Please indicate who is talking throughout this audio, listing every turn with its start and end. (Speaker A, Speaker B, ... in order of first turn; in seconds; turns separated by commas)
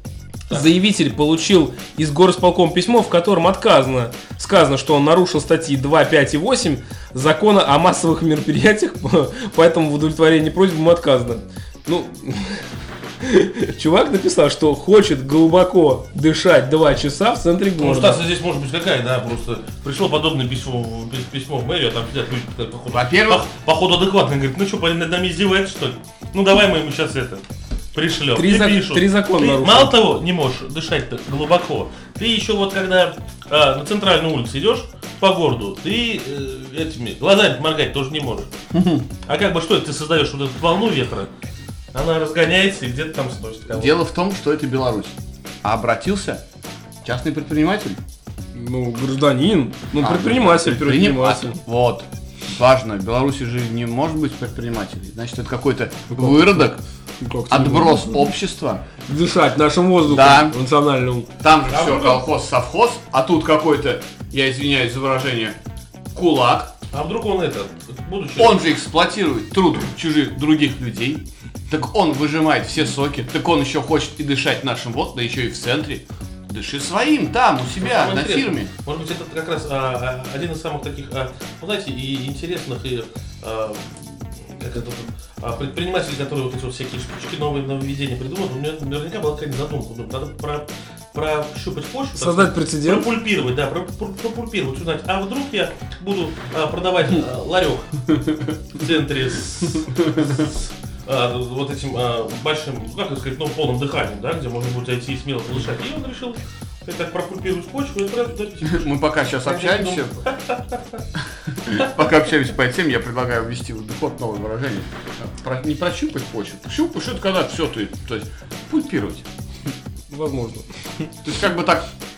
Speaker A: 0.5-12.6, Speaker A: 13.2-18.2, Speaker B: 17.8-38.5, Speaker C: 22.9-23.4, Speaker A: 28.3-29.9, Speaker C: 38.7-39.1, Speaker B: 39.2-41.3, Speaker B: 41.9-44.0, Speaker C: 43.7-46.4, Speaker C: 47.0-48.0, Speaker A: 48.5-51.6, Speaker C: 50.0-56.8, Speaker A: 56.1-56.6, Speaker A: 57.2-58.3, Speaker C: 57.5-58.8, Speaker A: 59.1-61.3, Speaker C: 60.0-60.5, Speaker C: 61.4-65.5, Speaker B: 61.7-62.2, Speaker C: 66.1-66.7, Speaker B: 66.9-68.7, Speaker C: 68.4-78.7, Speaker B: 77.8-98.2, Speaker A: 92.2-93.1, Speaker B: 98.7-111.0, Speaker C: 99.8-100.2, Speaker C: 108.7-110.2, Speaker C: 111.5-119.2, Speaker A: 120.1-120.7, Speaker C: 121.2-121.9